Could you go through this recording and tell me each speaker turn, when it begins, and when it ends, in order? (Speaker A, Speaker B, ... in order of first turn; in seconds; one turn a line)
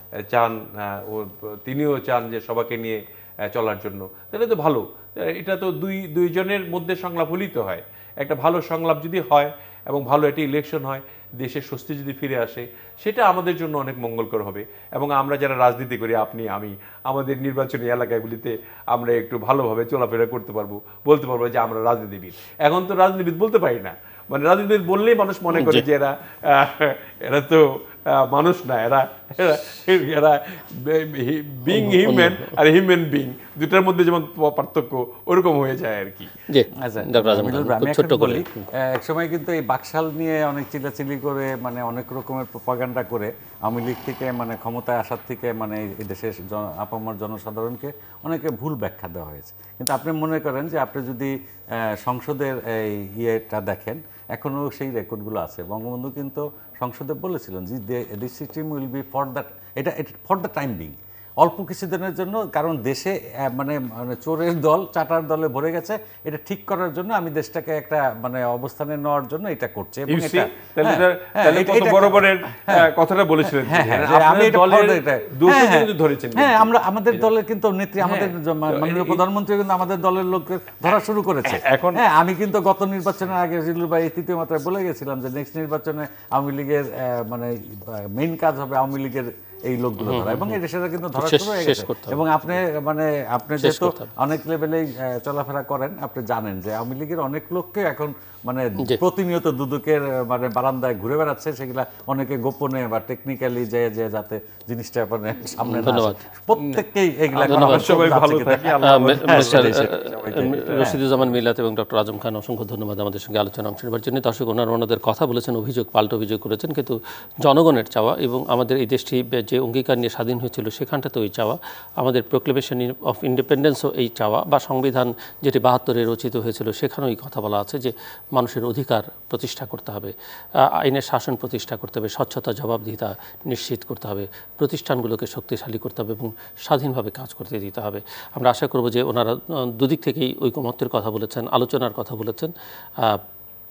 Speaker A: 0.3-36.3
Speaker B: 25.5-25.9
Speaker B: 31.7-32.5
Speaker B: 36.5-38.7
Speaker C: 36.8-72.9
Speaker A: 70.1-77.3
Speaker C: 73.5-111.0
Speaker A: 78.0-79.2
Speaker A: 81.4-82.0
Speaker B: 90.0-90.6
Speaker B: 91.2-92.2
Speaker B: 93.6-94.1
Speaker B: 105.6-106.2
Speaker A: 106.6-106.8
Speaker A: 107.3-111.0
Speaker B: 107.4-107.9
Speaker B: 108.8-143.2